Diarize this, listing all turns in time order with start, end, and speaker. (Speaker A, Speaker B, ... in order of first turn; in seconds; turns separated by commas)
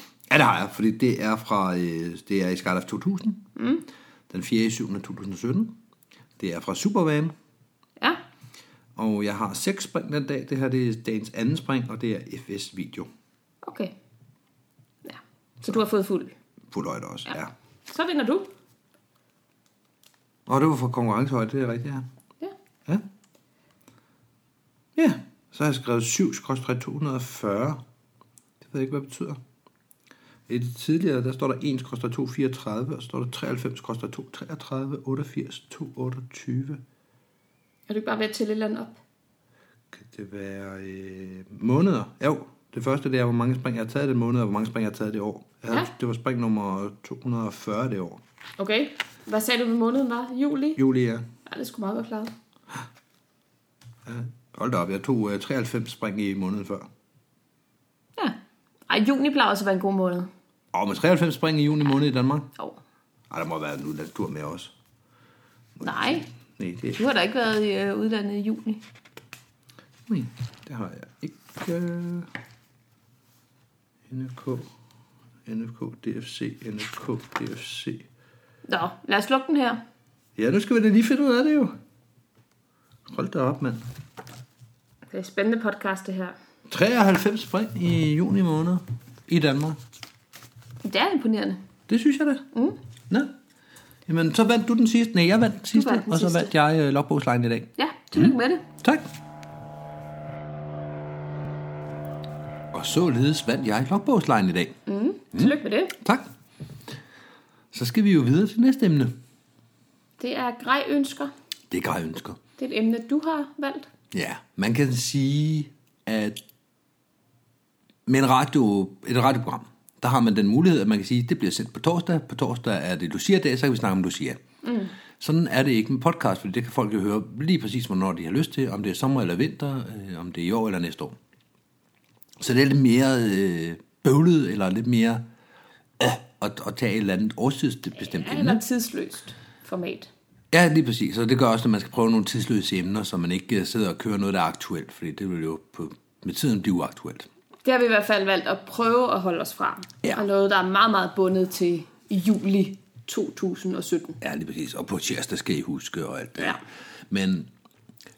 Speaker A: 0.3-3.4, Speaker B: 3.6-3.9, Speaker A: 4.3-5.8, Speaker A: 6.4-7.3, Speaker A: 9.0-13.1, Speaker B: 13.6-13.9, Speaker B: 15.1-16.3, Speaker A: 16.7-17.5, Speaker B: 17.9-18.5, Speaker A: 20.5-22.1, Speaker A: 25.0-27.8, Speaker A: 28.6-29.4, Speaker A: 30.5-36.8, Speaker B: 37.9-39.0, Speaker A: 39.9-48.2, Speaker B: 48.6-50.8, Speaker A: 50.8-51.2, Speaker B: 51.5-52.3, Speaker A: 54.1-56.9, Speaker B: 58.9-60.3, Speaker A: 60.7-62.5, Speaker A: 63.3-64.7, Speaker A: 65.8-67.0, Speaker B: 65.8-66.3, Speaker B: 67.0-68.8, Speaker A: 70.1-72.3, Speaker A: 74.1-74.7, Speaker A: 75.5-78.0, Speaker B: 78.7-79.8, Speaker A: 80.4-81.7, Speaker A: 83.1-83.8, Speaker B: 85.1-86.4, Speaker A: 86.7-89.8, Speaker B: 90.8-91.6, Speaker A: 91.9-92.4, Speaker B: 92.5-92.8, Speaker A: 94.1-99.1, Speaker B: 95.7-96.5, Speaker B: 97.8-98.7, Speaker A: 102.7-104.8, Speaker B: 104.9-106.0, Speaker A: 105.3-106.3, Speaker A: 107.7-109.1, Speaker B: 110.2-111.3, Speaker A: 111.7-112.4, Speaker B: 112.6-113.9, Speaker A: 114.1-116.4, Speaker A: 118.1-124.4, Speaker B: 124.6-124.9, Speaker A: 125.2-131.2, Speaker A: 132.4-135.2, Speaker A: 136.0-138.6, Speaker B: 138.0-140.1, Speaker A: 140.5-147.3, Speaker B: 147.7-154.2, Speaker A: 154.2-156.6, Speaker A: 157.1-157.5